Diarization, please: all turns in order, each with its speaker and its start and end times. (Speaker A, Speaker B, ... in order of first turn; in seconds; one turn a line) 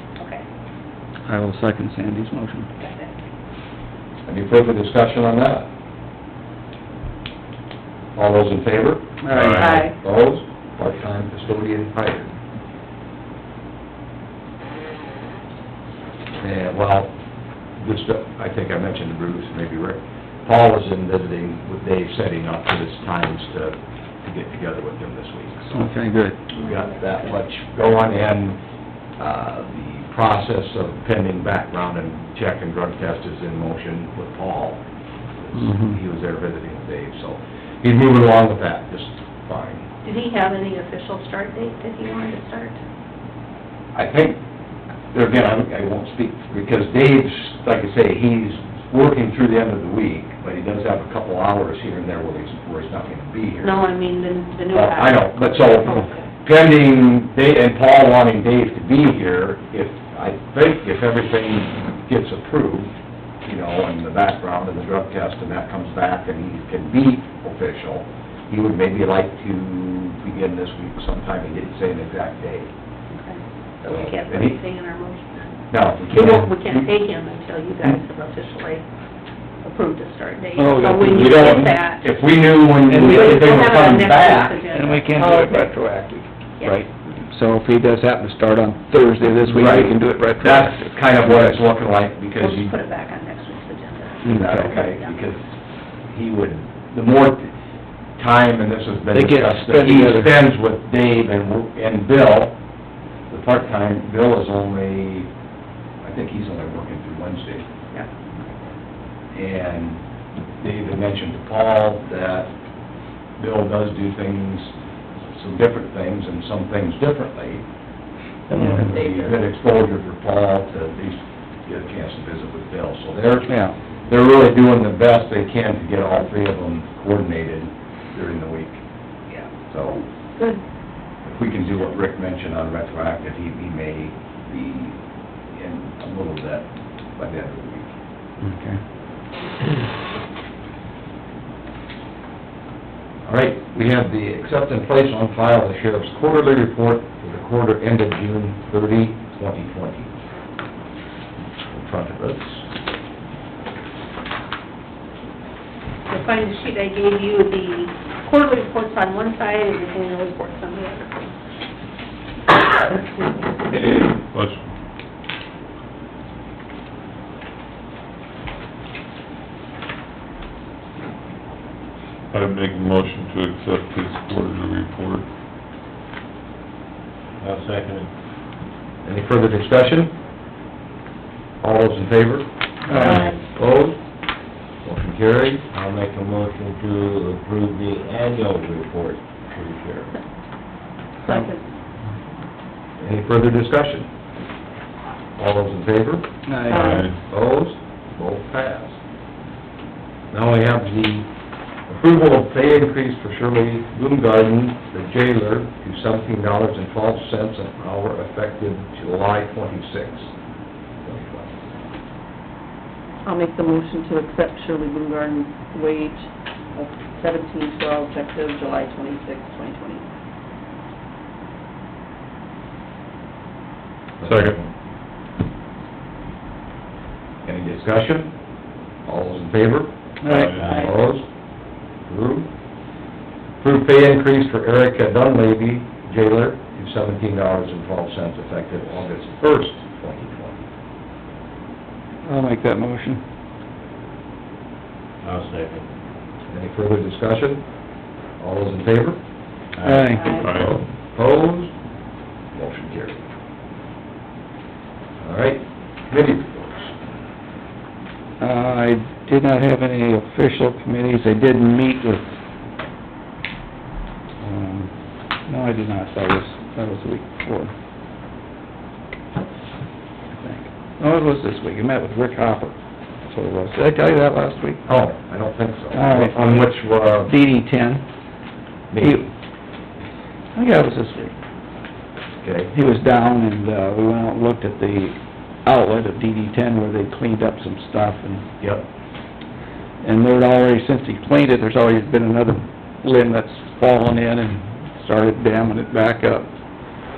Speaker A: 0.2-0.4
Speaker B: 1.2-2.7
Speaker A: 2.8-3.1
Speaker C: 4.2-5.7
Speaker C: 8.1-9.2
Speaker B: 9.2-9.9
Speaker D: 9.3-9.8
Speaker A: 9.6-9.9
Speaker C: 9.8-12.3
Speaker C: 16.4-17.1
Speaker C: 17.8-25.9
Speaker B: 25.7-26.4
Speaker C: 26.5-28.6
Speaker A: 26.6-27.2
Speaker C: 29.2-34.8
Speaker C: 35.4-39.9
Speaker B: 35.5-36.0
Speaker A: 40.0-42.8
Speaker C: 43.9-44.4
Speaker C: 45.1-53.8
Speaker A: 53.6-56.3
Speaker C: 54.7-62.9
Speaker C: 63.4-72.7
Speaker A: 73.1-75.6
Speaker C: 73.8-74.6
Speaker C: 75.7-76.8
Speaker A: 76.1-78.8
Speaker A: 79.6-82.1
Speaker B: 80.5-81.7
Speaker C: 81.1-84.6
Speaker A: 82.9-85.3
Speaker B: 82.9-83.3
Speaker B: 84.7-91.6
Speaker E: 85.2-85.7
Speaker C: 89.5-92.7
Speaker A: 92.4-95.2
Speaker C: 94.2-95.5
Speaker B: 94.3-94.7
Speaker C: 96.1-97.5
Speaker C: 98.2-102.6
Speaker B: 99.1-100.3
Speaker C: 103.3-105.3
Speaker C: 106.0-107.6
Speaker C: 109.3-110.0
Speaker C: 110.6-112.5
Speaker C: 113.4-114.7
Speaker C: 115.3-117.6
Speaker C: 118.5-123.5
Speaker A: 118.8-119.3
Speaker B: 123.5-123.8
Speaker C: 124.0-128.8
Speaker C: 129.7-130.0
Speaker E: 130.3-130.6
Speaker C: 131.2-135.0
Speaker C: 135.5-137.9
Speaker B: 138.4-138.8
Speaker C: 143.2-150.1
Speaker C: 151.7-152.7
Speaker A: 156.1-161.3
Speaker A: 162.9-163.3
Speaker D: 164.3-164.7
Speaker D: 172.3-175.3
Speaker F: 177.4-178.1
Speaker C: 179.0-180.1
Speaker C: 181.6-184.0
Speaker B: 182.9-183.2
Speaker C: 184.8-185.6
Speaker F: 185.7-190.1
Speaker E: 191.2-191.6
Speaker C: 193.0-194.1
Speaker C: 195.4-196.2
Speaker B: 196.5-196.7
Speaker D: 196.7-197.2
Speaker E: 196.8-197.0
Speaker C: 197.0-198.9
Speaker C: 200.3-201.3
Speaker C: 201.9-210.3
Speaker C: 211.0-211.5
Speaker E: 213.2-220.1
Speaker C: 224.2-224.7
Speaker D: 224.3-224.6
Speaker C: 227.4-228.3
Speaker C: 229.0-229.9
Speaker B: 230.2-230.9
Speaker D: 230.3-230.7
Speaker C: 230.5-231.3
Speaker F: 230.6-230.9
Speaker C: 232.1-232.5
Speaker C: 233.6-240.6
Speaker B: 242.2-243.2
Speaker F: 245.2-245.9
Speaker C: 246.5-247.6
Speaker C: 248.4-249.2
Speaker F: 249.7-250.8
Speaker B: 249.8-250.3
Speaker A: 250.2-250.5
Speaker D: 250.3-250.8
Speaker C: 251.1-251.7
Speaker C: 252.5-253.2
Speaker C: 255.2-257.0
Speaker B: 258.4-262.3
Speaker B: 264.4-264.9
Speaker B: 265.5-267.7
Speaker B: 270.4-274.8
Speaker C: 274.9-277.3
Speaker B: 275.9-276.7
Speaker B: 277.2-278.0
Speaker C: 278.9-279.2
Speaker B: 279.0-279.3
Speaker B: 280.5-281.3
Speaker C: 282.4-282.7
Speaker B: 282.7-288.4
Speaker B: 290.0-296.5